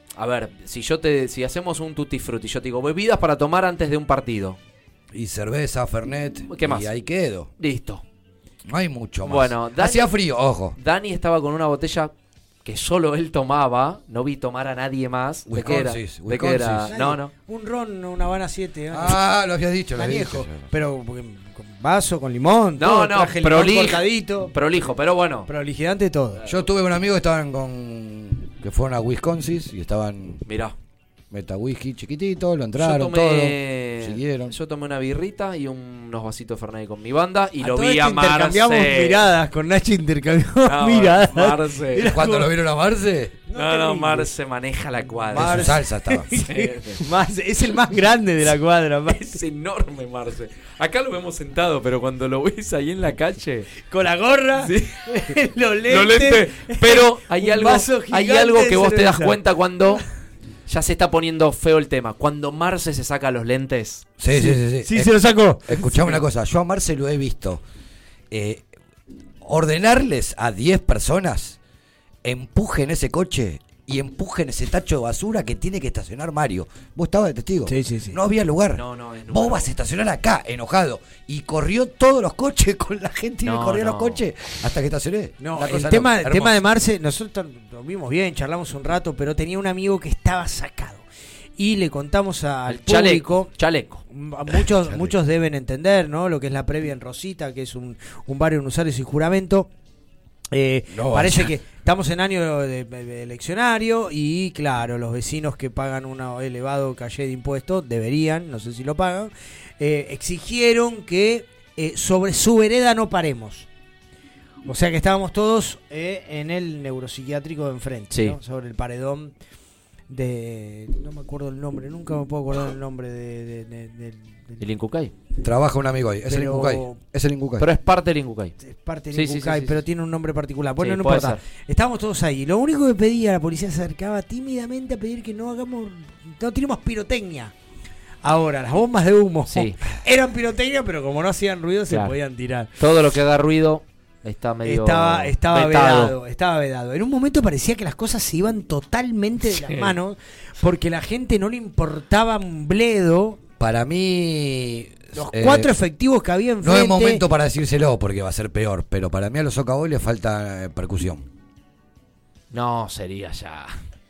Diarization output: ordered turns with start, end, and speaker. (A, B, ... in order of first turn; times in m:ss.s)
0:00.2-0:04.6 A
0:05.1-0:07.5 B
0:06.5-0:06.9 A
0:07.6-0:08.0 A
0:08.6-0:10.8 B
0:09.2-0:10.1 A
0:10.8-0:12.1 A
0:12.6-0:17.3 A
0:15.5-0:16.9 B
0:16.9-0:19.2 C
0:18.9-0:20.7 B
0:20.0-0:24.5 C
0:22.8-0:25.5 A
0:25.5-0:26.4 C
0:26.4-0:26.7 A
0:26.4-0:30.4 B
0:30.4-0:30.7 A
0:31.3-0:34.5 B
0:32.8-0:39.3 A
0:37.6-0:42.5 C
0:40.6-0:42.2 A
0:42.0-0:43.4 B
0:43.5-0:44.3 C
0:43.5-0:45.8 A
0:45.3-0:49.3 C
0:45.3-0:46.3 B
0:46.3-0:47.0 A
0:49.1-0:53.7 A
0:53.8-1:00.0 C
0:54.6-0:55.0 A
0:55.9-1:00.0 A
1:00.7-1:04.1 A
1:04.2-1:07.6 B
1:04.3-1:05.9 C
1:08.3-1:08.7 B
1:09.4-1:11.6 B
1:12.2-1:26.6 B
1:17.6-1:18.2 C
1:18.7-1:19.7 A
1:23.4-1:24.2 A
1:25.4-1:31.0 C
1:31.6-1:33.5 C
1:32.7-1:34.0 A
1:34.1-1:39.7 C
1:34.7-1:35.2 B
1:40.5-1:53.7 C
1:40.9-1:41.5 B
1:54.6-1:59.3 C
1:58.1-1:58.4 A
2:00.1-2:04.6 C
2:04.6-2:05.1 A
2:05.4-2:07.7 B
2:06.3-2:07.0 C
2:07.6-2:08.5 A
2:08.6-2:17.5 C
2:09.1-2:09.8 A
2:10.8-2:11.4 A
2:18.2-2:22.7 C
2:19.5-2:19.8 A
2:21.9-2:22.2 A
2:22.8-2:26.1 A
2:24.6-2:33.4 C
2:29.5-2:29.9 A
2:33.6-2:35.7 B
2:35.1-2:37.2 C
2:36.6-2:41.3 B
2:42.5-2:43.8 A